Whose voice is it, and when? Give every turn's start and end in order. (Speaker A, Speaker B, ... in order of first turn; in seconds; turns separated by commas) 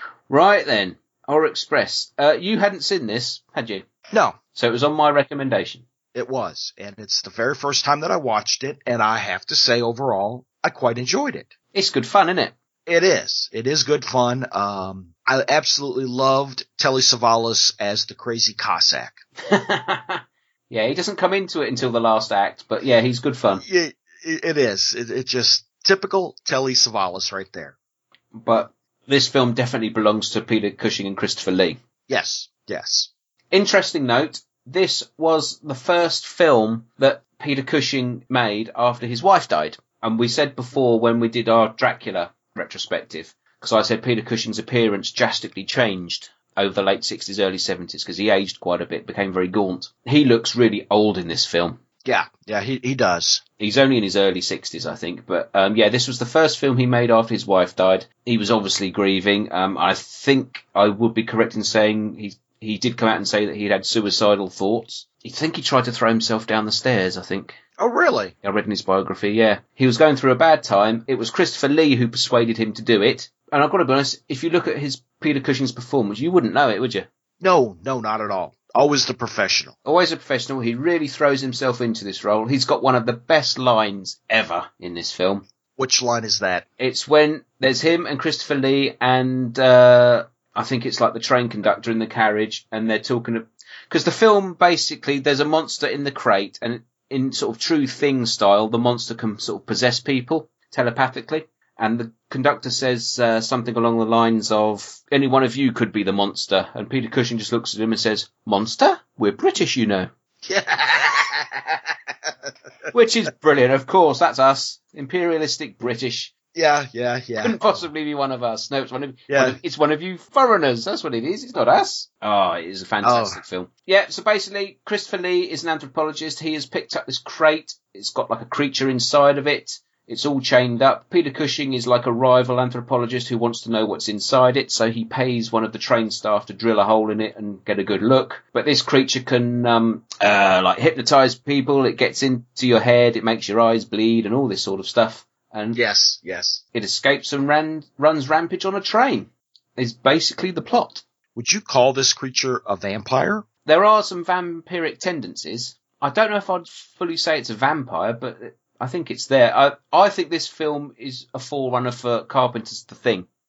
Speaker A: 0.3-3.9, Speaker B: 4.1-4.4, Speaker A: 4.5-5.8, Speaker B: 6.1-11.5, Speaker A: 11.7-12.5, Speaker B: 12.8-19.2, Speaker A: 19.5-23.6, Speaker B: 23.6-27.8, Speaker A: 28.3-31.8, Speaker B: 32.1-33.1, Speaker A: 33.5-51.8, Speaker B: 52.0-53.4, Speaker A: 53.6-67.6, Speaker B: 67.8-68.3, Speaker A: 68.4-77.1, Speaker B: 77.4-79.7, Speaker A: 79.8-85.5, Speaker B: 85.8-86.6, Speaker A: 86.8-110.1, Speaker B: 110.4-111.8, Speaker A: 112.9-116.3, Speaker B: 116.5-117.6, Speaker A: 117.4-145.8, Speaker B: 119.3-119.6, Speaker B: 123.0-123.4, Speaker B: 145.7-146.6, Speaker A: 146.7-151.0, Speaker B: 151.3-153.4, Speaker A: 153.6-163.3